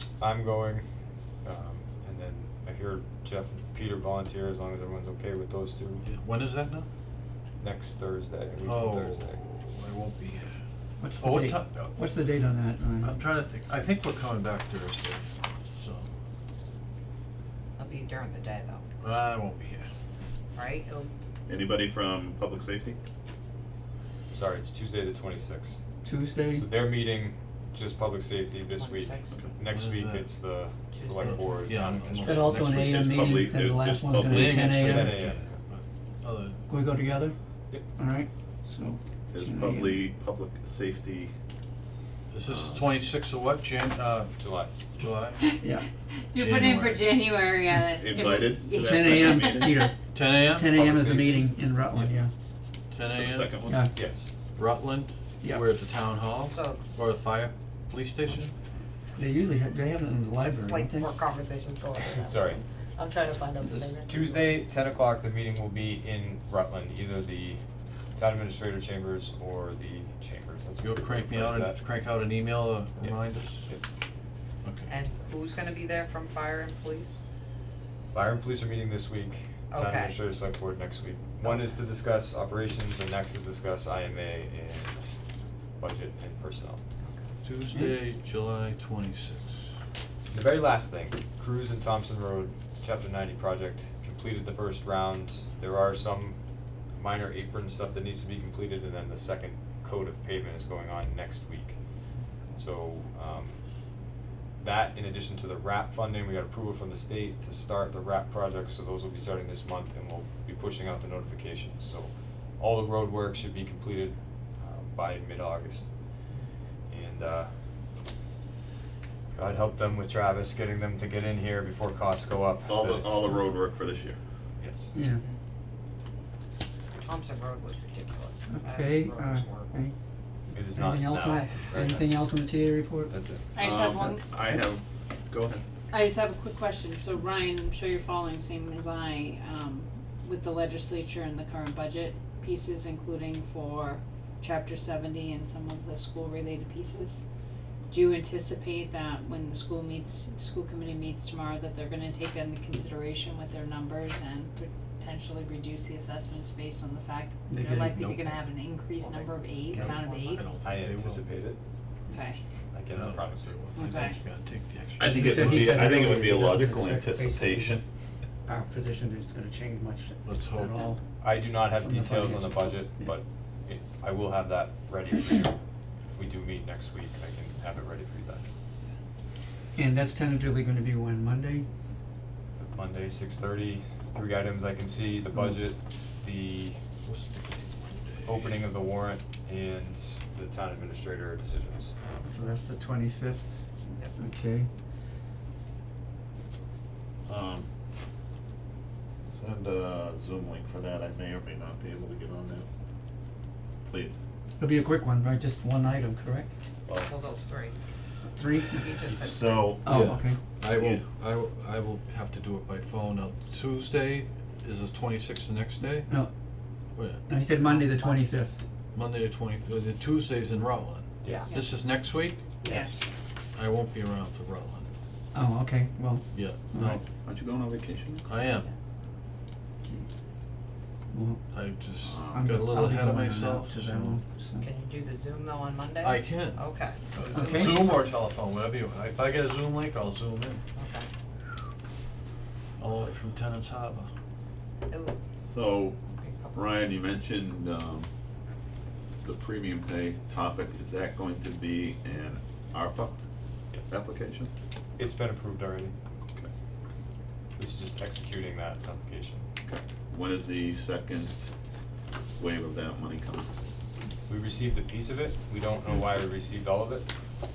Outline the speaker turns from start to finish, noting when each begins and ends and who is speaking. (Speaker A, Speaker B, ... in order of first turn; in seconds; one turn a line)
Speaker A: 0.2-0.9
Speaker A: 1.4-6.0
Speaker B: 6.0-6.9
Speaker A: 7.6-9.4
Speaker B: 8.6-10.6
Speaker C: 11.0-13.1
Speaker B: 11.2-11.9
Speaker B: 13.0-16.1
Speaker D: 17.8-18.9
Speaker B: 19.0-19.9
Speaker D: 20.5-21.1
Speaker E: 21.5-23.0
Speaker A: 24.3-25.8
Speaker C: 26.0-26.6
Speaker A: 26.5-32.6
Speaker D: 28.8-29.5
Speaker B: 29.7-30.3
Speaker D: 30.9-32.0
Speaker B: 31.2-33.0
Speaker C: 32.2-35.2
Speaker E: 32.7-34.9
Speaker B: 34.3-36.7
Speaker A: 34.6-35.6
Speaker C: 36.7-37.3
Speaker C: 37.9-40.0
Speaker E: 39.3-41.3
Speaker B: 42.3-44.4
Speaker E: 42.4-42.9
Speaker A: 44.4-44.7
Speaker B: 45.0-45.6
Speaker F: 45.4-49.9
Speaker C: 45.6-45.9
Speaker B: 46.3-47.1
Speaker E: 47.9-49.9
Speaker C: 48.8-52.3
Speaker B: 50.1-50.8
Speaker A: 50.7-52.0
Speaker B: 52.9-53.6
Speaker E: 53.1-53.9
Speaker C: 53.6-53.9
Speaker A: 53.9-54.3
Speaker B: 54.5-58.5
Speaker D: 56.5-56.8
Speaker C: 59.2-61.1
Speaker D: 60.4-64.6
Speaker A: 62.1-62.6
Speaker C: 63.6-63.9
Speaker A: 64.0-67.6
Speaker A: 68.1-71.8
Speaker B: 70.8-73.7
Speaker A: 73.0-73.8
Speaker B: 74.6-74.9
Speaker D: 74.9-77.7
Speaker A: 78.1-85.2
Speaker D: 79.7-80.2
Speaker D: 81.4-81.8
Speaker A: 85.8-86.8
Speaker D: 87.0-87.3
Speaker B: 87.4-89.7
Speaker C: 87.7-88.0
Speaker A: 90.3-101.8
Speaker D: 102.1-102.6
Speaker A: 102.5-103.6
Speaker A: 104.6-116.0
Speaker A: 116.9-117.6
Speaker A: 119.3-123.5
Speaker E: 122.7-124.2
Speaker A: 124.6-124.9
Speaker C: 124.9-125.2
Speaker D: 125.1-125.4
Speaker D: 126.9-129.8
Speaker C: 128.5-129.9
Speaker A: 130.5-132.3
Speaker C: 130.6-133.2
Speaker A: 133.1-133.4
Speaker F: 133.5-134.2
Speaker E: 133.6-135.6
Speaker F: 135.9-147.2
Speaker F: 147.9-160.4
Speaker C: 157.5-158.4
Speaker B: 158.0-158.4
Speaker D: 159.0-160.5
Speaker B: 159.8-161.2
Speaker A: 160.6-161.6
Speaker F: 162.1-162.4
Speaker A: 162.7-163.6
Speaker B: 162.9-165.8
Speaker F: 163.8-164.2
Speaker E: 165.0-167.8
Speaker C: 165.1-167.8
Speaker C: 168.5-171.0
Speaker B: 170.2-170.8
Speaker A: 171.2-175.6
Speaker C: 171.8-173.1
Speaker A: 176.2-178.4
Speaker C: 179.8-181.7
Speaker A: 182.6-186.8
Speaker B: 187.1-188.7
Speaker A: 188.2-192.0
Speaker C: 192.3-193.6
Speaker C: 194.2-194.7
Speaker E: 197.3-197.7
Speaker E: 199.3-202.7
Speaker E: 203.8-204.2
Speaker C: 204.6-206.5
Speaker D: 207.0-207.8
Speaker C: 208.3-209.1
Speaker D: 208.7-209.8
Speaker E: 209.2-211.0
Speaker C: 209.8-210.4
Speaker B: 209.9-216.1
Speaker C: 216.1-216.3
Speaker B: 216.9-217.3
Speaker C: 217.3-218.7
Speaker D: 217.6-218.3
Speaker B: 218.9-222.8
Speaker D: 221.2-221.7
Speaker D: 222.6-222.9
Speaker F: 222.6-223.0
Speaker B: 223.5-224.9
Speaker C: 225.3-227.0
Speaker B: 226.3-227.0
Speaker E: 227.0-228.3
Speaker B: 228.3-228.7
Speaker C: 231.1-231.4
Speaker B: 231.5-234.2
Speaker E: 232.1-232.6
Speaker C: 232.3-234.7
Speaker D: 234.6-238.1
Speaker B: 236.0-240.6
Speaker C: 237.3-237.8
Speaker D: 240.8-241.1
Speaker B: 242.8-244.1
Speaker D: 244.9-245.2
Speaker E: 245.4-246.0
Speaker D: 246.1-246.9
Speaker E: 246.5-248.1
Speaker E: 249.2-253.1
Speaker E: 253.9-254.5
Speaker A: 255.0-255.9
Speaker A: 257.5-259.5
Speaker E: 259.6-261.5
Speaker E: 262.4-263.5
Speaker A: 264.3-267.1